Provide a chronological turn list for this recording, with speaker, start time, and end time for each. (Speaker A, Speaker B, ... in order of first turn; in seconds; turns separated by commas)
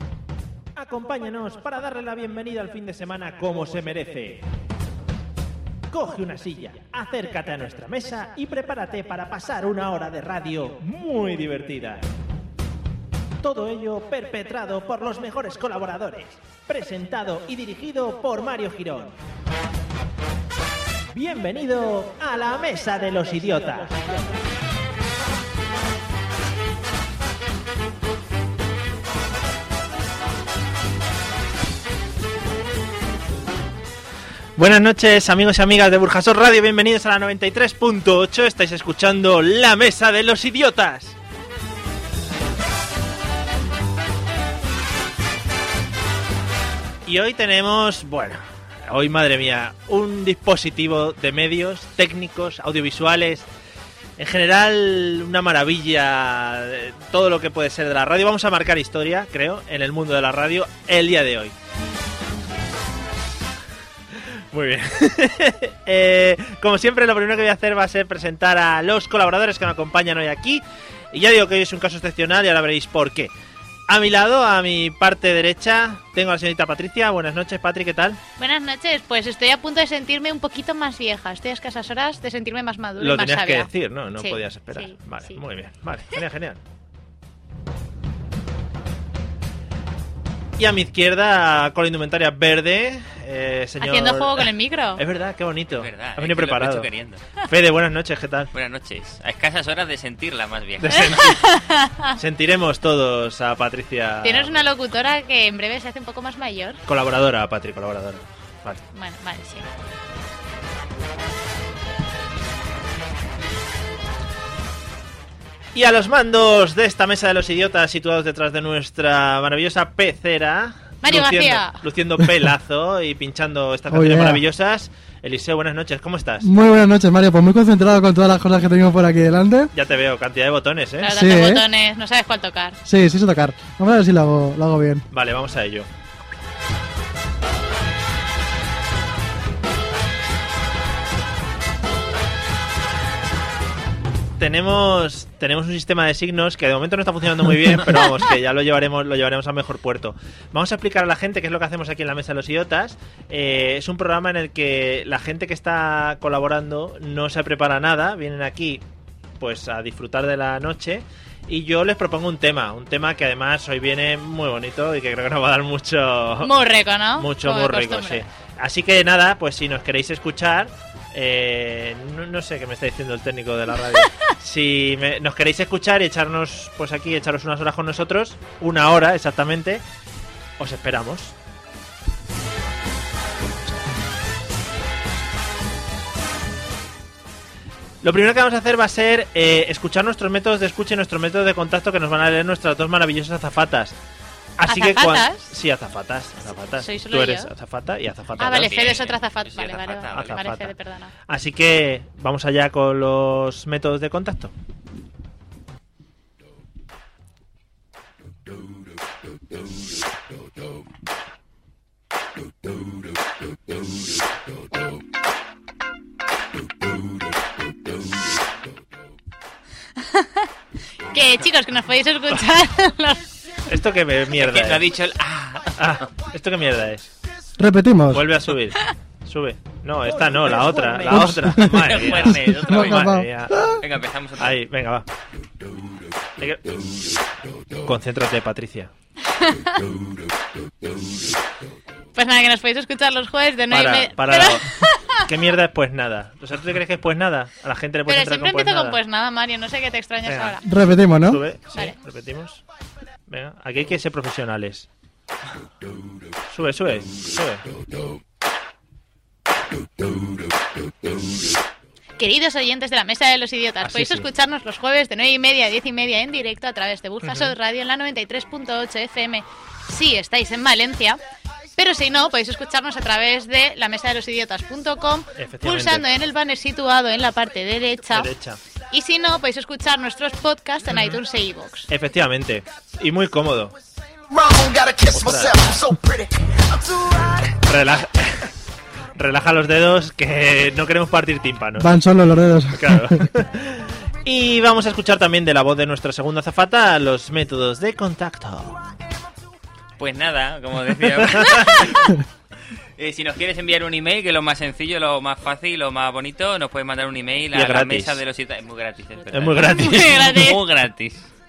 Speaker A: 0.7-4.4, Speaker A: 5.9-12.0, Speaker A: 13.4-19.1, Speaker A: 21.1-24.3, Speaker A: 34.6-41.1, Speaker A: 47.0-53.5, Speaker A: 54.2-61.5, Speaker A: 64.1-73.3, Speaker A: 73.9-78.2, Speaker B: 78.4-85.4, Speaker A: 83.0-86.6, Speaker A: 90.6-96.9, Speaker B: 93.8-95.0, Speaker C: 95.8-97.2, Speaker A: 97.4-98.5, Speaker C: 98.5-101.3, Speaker A: 100.8-101.5, Speaker B: 101.1-102.1, Speaker A: 102.2-104.6, Speaker B: 104.2-106.8, Speaker A: 106.8-108.8, Speaker B: 108.9-109.7, Speaker A: 115.7-126.5, Speaker B: 121.0-121.8, Speaker D: 123.9-124.4, Speaker D: 126.4-129.7, Speaker A: 129.7-131.1, Speaker B: 131.0-132.8, Speaker D: 131.1-131.6, Speaker D: 132.8-135.1, Speaker A: 135.1-135.9, Speaker A: 144.4-158.8, Speaker A: 159.4-166.5, Speaker B: 166.4-168.2, Speaker A: 167.2-179.8, Speaker A: 180.6-181.3, Speaker A: 188.0-193.9, Speaker A: 194.6-198.8, Speaker B: 194.7-195.5, Speaker B: 196.8-197.5, Speaker B: 198.4-201.1, Speaker C: 198.6-200.4, Speaker A: 200.1-200.7, Speaker A: 201.3-204.5, Speaker B: 220.0-220.5, Speaker B: 221.1-223.2, Speaker A: 223.7-224.8, Speaker C: 224.3-226.0, Speaker A: 225.8-227.1, Speaker D: 227.6-228.3, Speaker A: 228.1-233.7, Speaker D: 231.0-233.8, Speaker C: 231.5-234.6, Speaker A: 234.4-235.1, Speaker A: 236.4-236.7, Speaker A: 237.8-238.9, Speaker B: 239.3-239.9, Speaker B: 242.1-245.2, Speaker A: 243.7-244.7, Speaker A: 245.2-249.0, Speaker B: 248.1-250.6, Speaker A: 250.2-250.6, Speaker D: 250.6-251.4, Speaker A: 251.1-252.6, Speaker A: 253.3-254.9, Speaker A: 256.5-257.6, Speaker B: 262.2-271.2, Speaker A: 263.8-264.3, Speaker A: 267.2-267.5, Speaker B: 271.8-278.3, Speaker A: 275.4-276.1, Speaker A: 278.1-278.6, Speaker B: 278.9-281.9, Speaker A: 280.9-281.2, Speaker A: 281.9-283.8, Speaker E: 284.3-287.6, Speaker A: 285.1-285.6, Speaker A: 287.6-288.5, Speaker A: 289.1-291.9, Speaker D: 291.8-293.2, Speaker A: 292.7-298.8, Speaker C: 300.0-302.2, Speaker A: 301.1-302.0, Speaker C: 303.0-311.3, Speaker A: 307.5-308.2, Speaker A: 309.3-310.4, Speaker B: 309.6-310.6